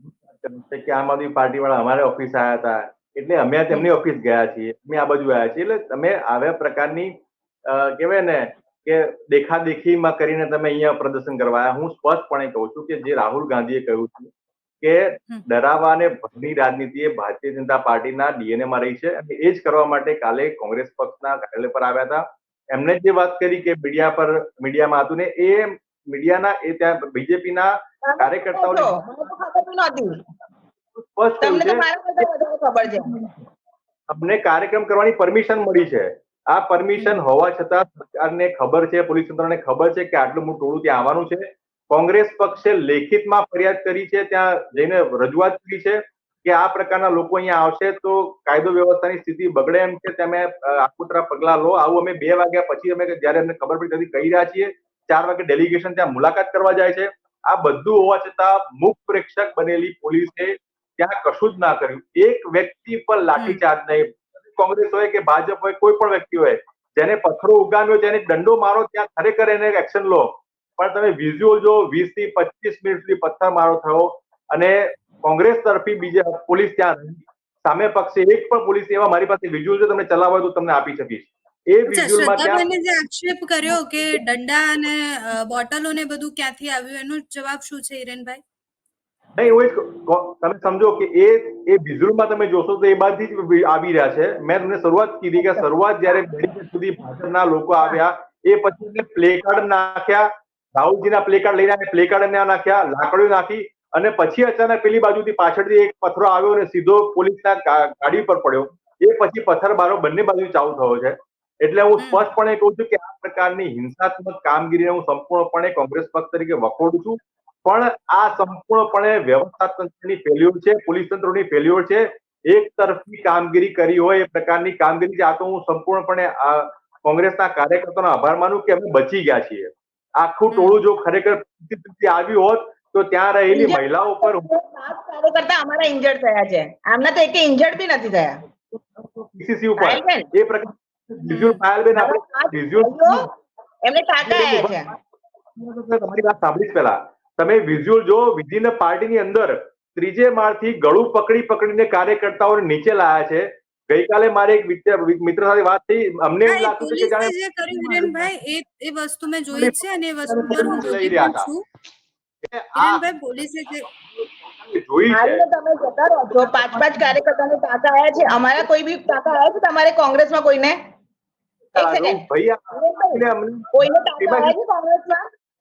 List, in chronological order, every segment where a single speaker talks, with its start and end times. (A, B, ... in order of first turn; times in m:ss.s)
0:00.4-0:14.3 A
0:14.8-0:28.9 A
0:28.0-0:30.2 B
0:31.0-0:32.2 A
0:31.4-0:33.1 B
0:32.8-0:33.5 A
0:34.1-1:22.6 A
1:03.4-1:03.6 C
1:21.9-1:28.4 C
1:29.3-2:14.5 A
1:52.0-1:52.3 C
2:10.5-2:10.8 C
2:13.5-2:18.4 B
2:19.0-2:23.3 A
2:19.8-2:20.3 B
2:21.2-2:21.6 C
2:21.9-2:23.3 B
2:23.8-2:24.8 B
2:24.2-2:24.8 A
2:25.6-2:38.3 A
2:36.5-2:41.6 C
2:39.5-2:41.5 A
2:42.4-2:43.0 A
2:42.8-2:43.9 C
2:44.6-2:45.4 A
2:45.1-2:50.8 B
2:46.4-2:47.2 A
2:51.8-2:55.3 B
2:51.8-2:54.5 A